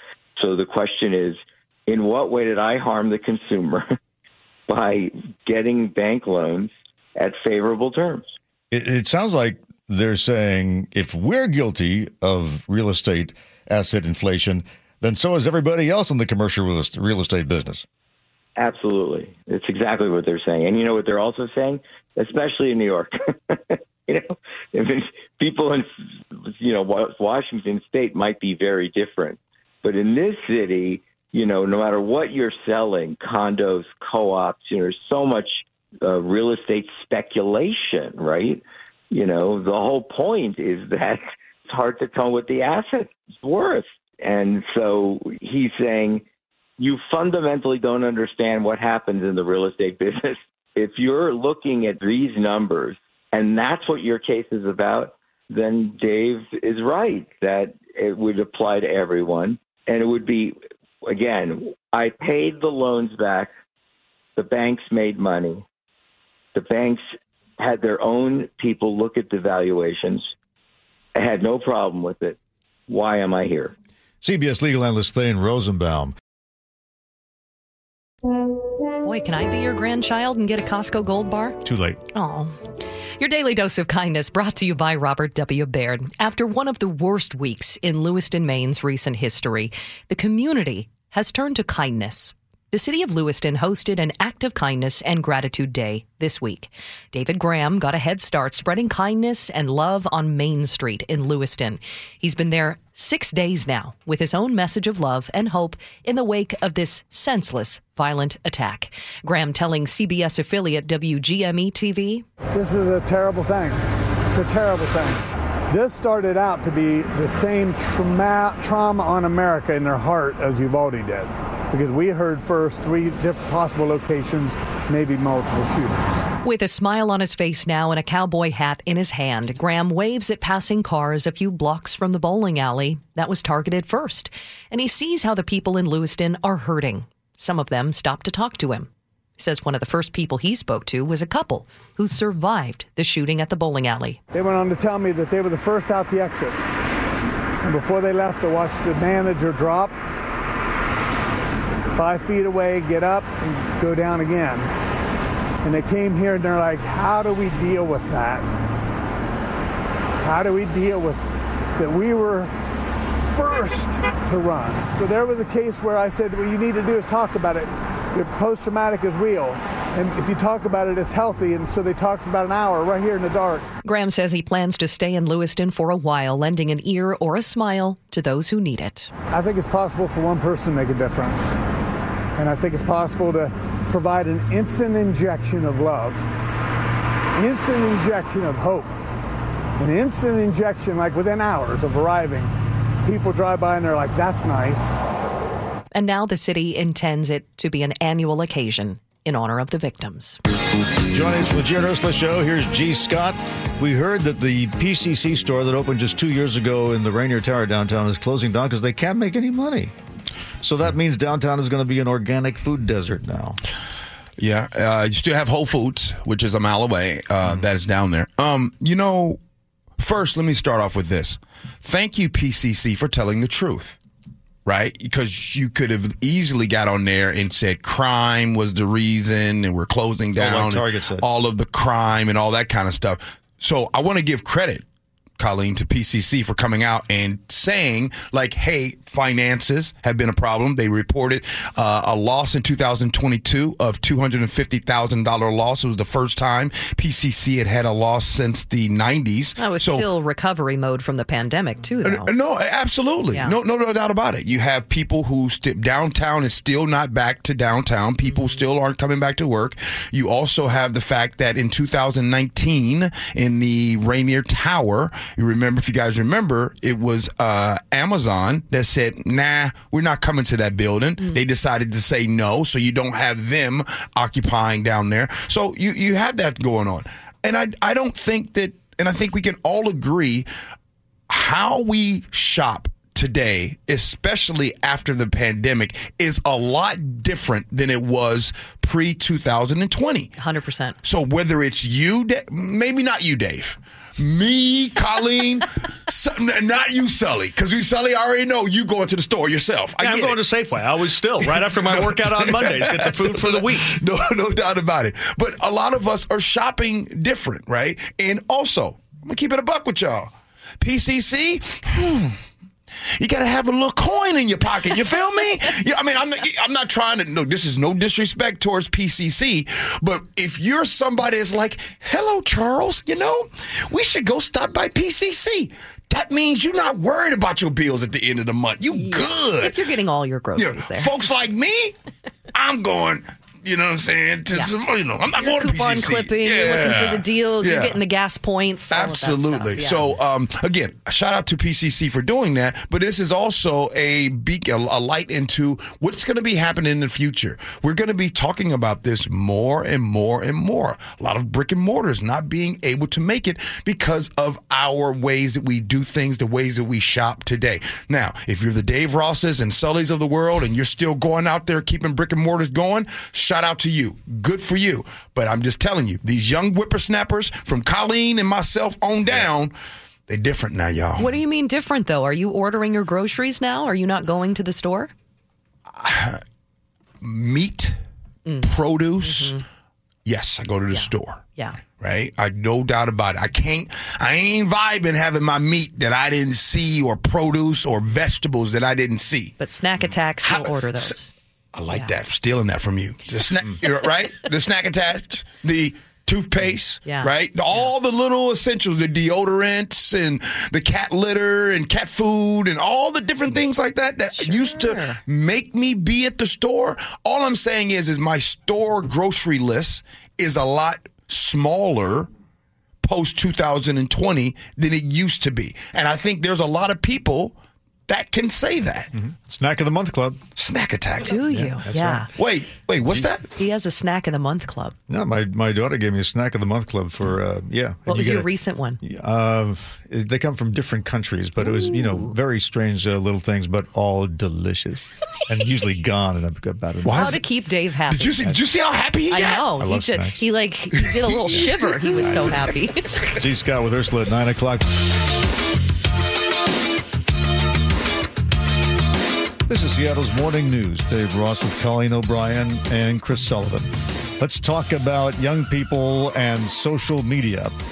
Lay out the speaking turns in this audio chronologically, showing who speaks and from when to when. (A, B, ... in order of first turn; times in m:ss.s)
0:00.4-0:03.9 A
0:04.7-0:08.3 A
0:08.7-0:17.8 B
0:18.6-0:46.2 A
0:46.8-1:03.5 A
1:04.4-1:05.6 A
1:06.5-1:07.0 A
1:07.6-1:10.2 A
1:11.2-1:12.4 A
1:12.9-1:13.8 A
1:14.2-1:16.1 B
1:19.0-1:21.6 C
1:21.6-1:22.0 B
1:22.1-1:22.6 C
1:23.2-1:52.2 C
1:52.5-1:53.8 D
1:54.3-2:06.2 D
2:06.4-2:24.2 C
2:24.3-2:26.6 D
2:27.6-2:30.0 D
2:31.9-2:34.7 D
2:35.6-2:38.5 D
2:40.2-2:42.5 D
2:43.2-2:53.7 D
2:53.8-2:59.1 C
2:59.3-3:01.6 D
3:02.4-3:06.3 D
3:07.4-3:08.9 D
3:09.8-3:12.5 D
3:13.0-3:15.0 D
3:15.9-3:20.4 C
3:21.1-3:29.9 B
3:30.6-3:33.6 B
3:34.4-3:39.4 E
3:40.0-3:44.0 E
3:44.7-3:54.8 E
3:50.3-3:51.2 B
3:55.4-4:10.1 E
4:09.6-4:12.3 C
4:12.0-4:40.5 E
4:41.3-4:50.3 E
4:50.4-4:51.0 C
4:51.0-5:00.8 E
5:00.0-5:03.9 F
5:01.4-5:12.4 E
5:13.2-5:29.8 E
5:28.9-5:31.1 C
5:30.6-5:32.0 E
5:32.5-5:38.0 E
5:35.4-5:40.0 C
5:38.9-6:09.7 E
6:10.3-6:11.3 E
6:11.2-6:15.1 C
6:16.0-6:16.4 E
6:17.2-6:18.0 E
6:18.6-6:19.6 E
6:19.2-6:19.6 C
6:20.3-6:21.4 E
6:20.9-6:21.8 C
6:22.0-6:29.6 E
6:29.6-6:31.3 C
6:30.4-6:31.2 E
6:31.7-6:52.3 E
6:37.0-6:37.3 C
6:44.4-6:45.2 C
6:53.0-6:57.6 E
6:58.1-6:59.1 E
6:59.1-7:00.4 B
7:00.6-7:01.4 E
7:01.2-7:02.3 C
7:01.5-7:02.3 B
7:02.4-7:03.4 E
7:03.6-7:05.0 C
7:05.1-7:08.5 B
7:08.1-7:09.0 C
7:09.0-7:17.4 B
7:11.7-7:12.3 C
7:17.0-7:17.5 E
7:17.1-7:18.4 C
7:18.1-7:19.7 E
7:19.3-7:23.2 C
7:19.8-7:20.4 B
7:21.0-7:23.2 E
7:23.4-7:24.9 B
7:29.7-7:37.7 B